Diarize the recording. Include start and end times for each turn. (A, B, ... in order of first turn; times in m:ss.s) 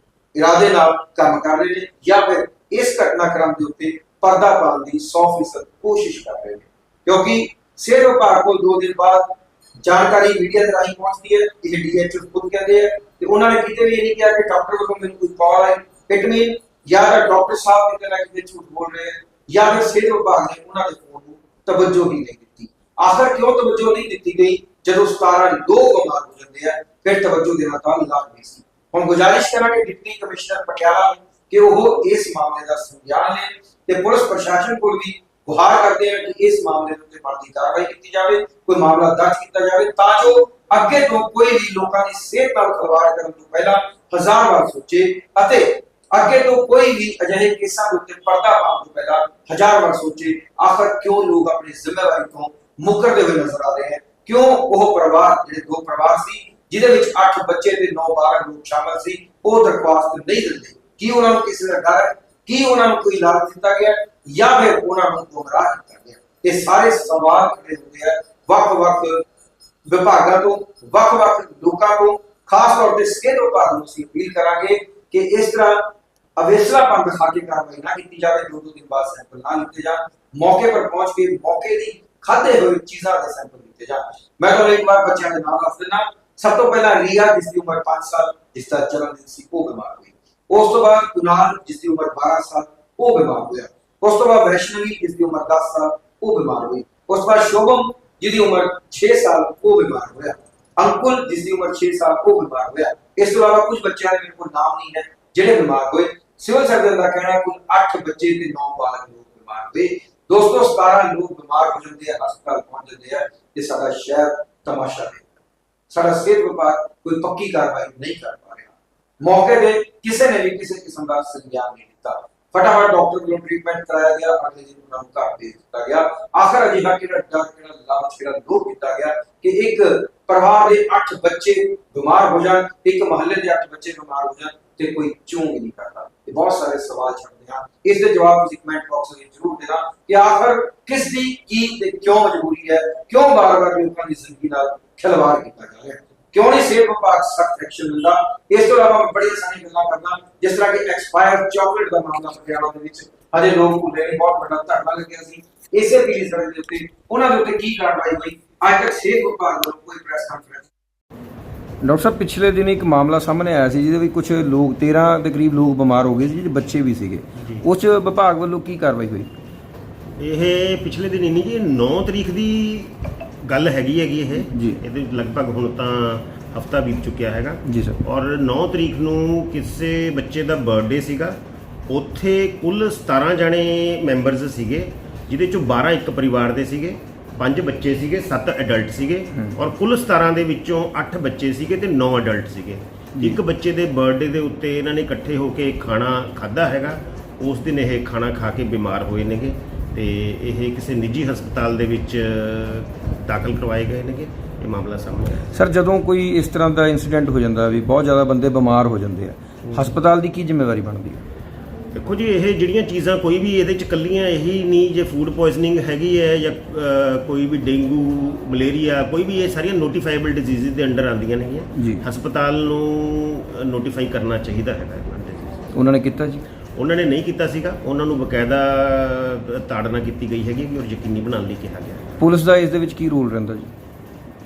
0:00.3-1:09.2 A
1:09.9-1:55.3 A
1:55.9-2:40.7 A
2:41.8-2:49.4 B
2:47.4-2:47.6 C
2:50.2-3:01.4 C
2:54.4-2:54.8 B
2:57.7-2:58.0 B
3:01.9-3:25.5 C
3:25.5-3:31.2 B
3:31.9-3:45.6 C
3:41.8-3:42.0 B
3:45.7-3:46.4 B
3:46.8-3:52.1 C
3:52.2-3:53.7 B